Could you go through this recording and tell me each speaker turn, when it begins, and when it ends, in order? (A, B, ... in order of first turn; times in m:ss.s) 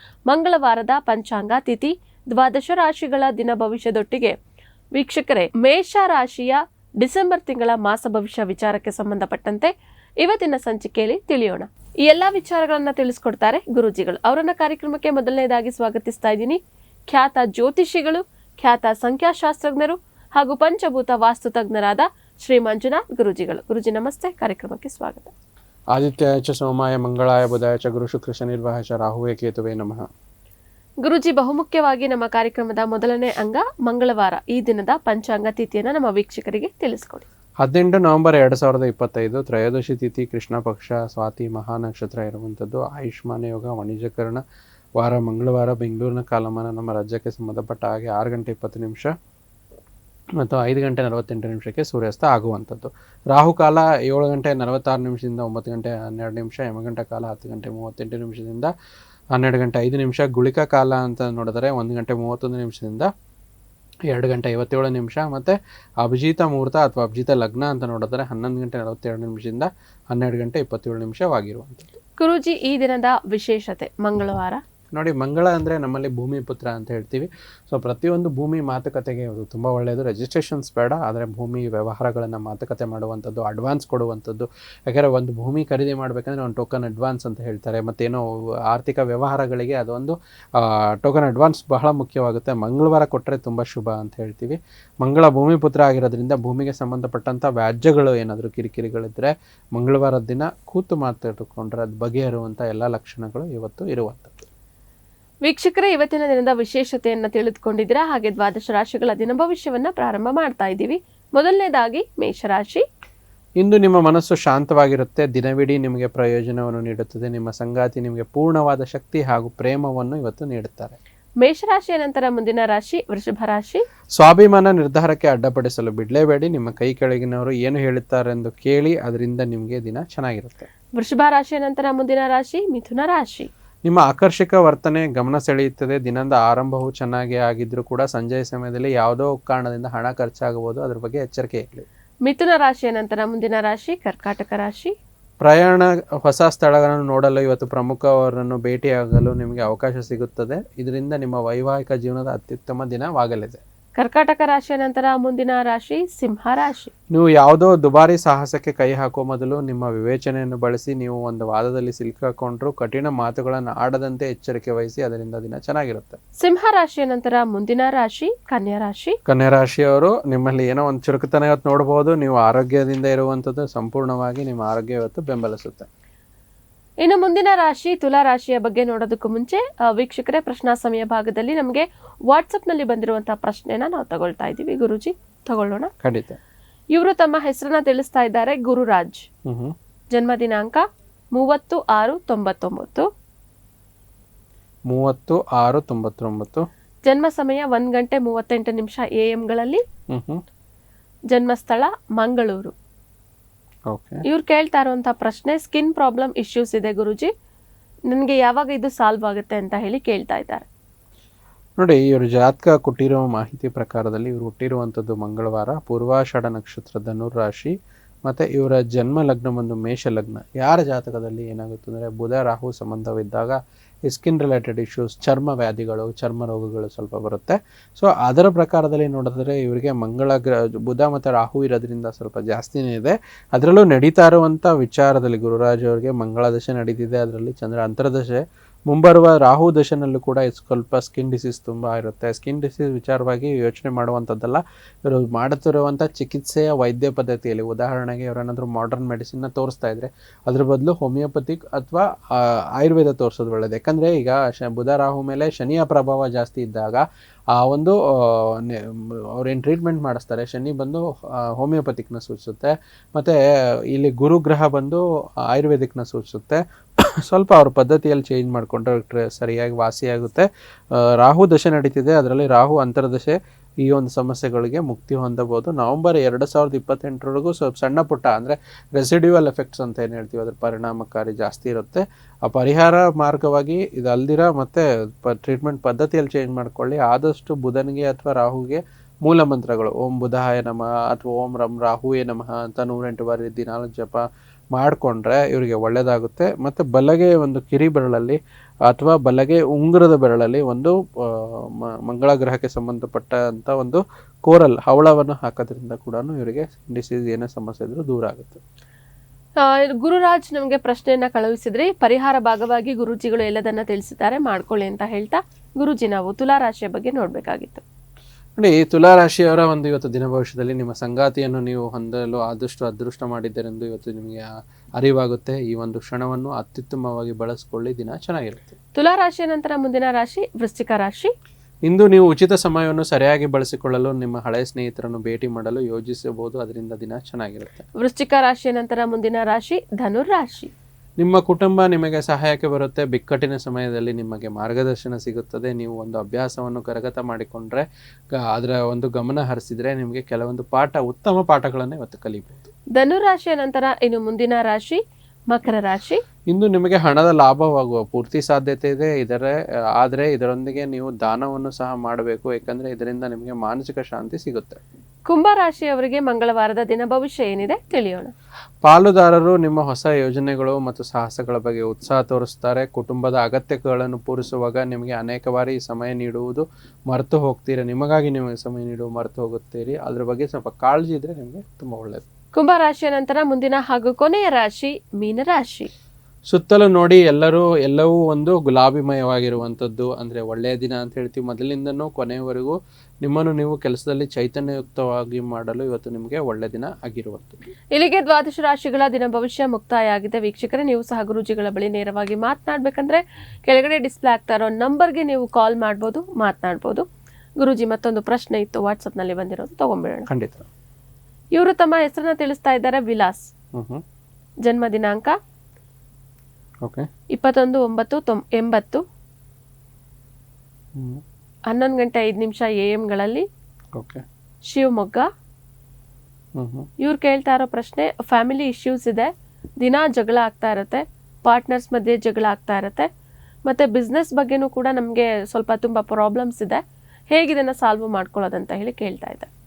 0:00.3-0:04.3 A
0:05.0-0:09.7 A
0:10.2-0:16.6 A
0:17.1-0:25.3 A
0:25.9-0:30.0 B
0:31.0-0:37.2 A
0:37.6-0:44.4 B
0:45.0-0:49.1 B
0:50.4-0:58.7 B
0:59.3-1:03.1 B
1:04.1-1:11.9 B
1:12.2-1:14.6 A
1:14.9-1:44.4 B
1:45.4-1:52.8 A
1:53.6-2:01.0 B
2:01.4-2:03.8 A
2:04.2-2:10.7 B
2:11.0-2:13.5 A
2:13.8-2:21.8 B
2:22.2-2:24.9 A
2:25.4-2:33.6 B
2:34.0-2:36.9 A
2:37.1-2:46.2 B
2:46.4-2:49.2 A
2:49.3-2:55.9 B
2:57.0-3:05.9 A
3:06.0-3:06.4 B
3:06.9-3:09.2 A
3:09.4-3:09.7 B
3:10.1-3:10.8 A
3:11.3-3:13.0 A
3:14.9-3:16.6 B
3:17.0-3:19.8 A
3:20.1-3:20.4 B
3:21.3-3:22.7 A
3:23.9-3:24.2 B
3:24.2-3:27.3 A
3:28.1-3:30.6 A
3:31.8-3:37.7 B
3:38.2-4:23.4 B
4:23.9-4:26.6 B
4:27.2-5:08.6 B
5:09.6-5:17.8 A
5:18.6-5:28.7 B
5:29.0-5:31.3 A
5:31.8-5:37.8 B
5:38.0-5:40.7 A
5:41.2-5:52.7 B
5:53.0-5:55.0 A
5:55.5-5:56.2 A
5:56.5-6:04.8 B
6:05.3-6:08.3 A
6:08.8-6:22.2 B
6:22.5-6:25.9 A
6:26.5-6:37.6 B
6:37.9-6:47.0 A
6:47.6-6:50.3 A
6:50.3-6:50.7 B
6:51.5-6:53.4 A
6:53.7-6:54.0 B
6:54.6-6:55.4 A
6:57.3-6:59.0 A
7:01.0-7:01.2 B
7:01.7-7:03.4 A
7:03.9-7:04.2 B
7:04.7-7:05.3 A
7:06.6-7:06.9 B
7:07.0-7:09.3 A
7:09.8-7:13.1 A
7:13.7-7:19.5 A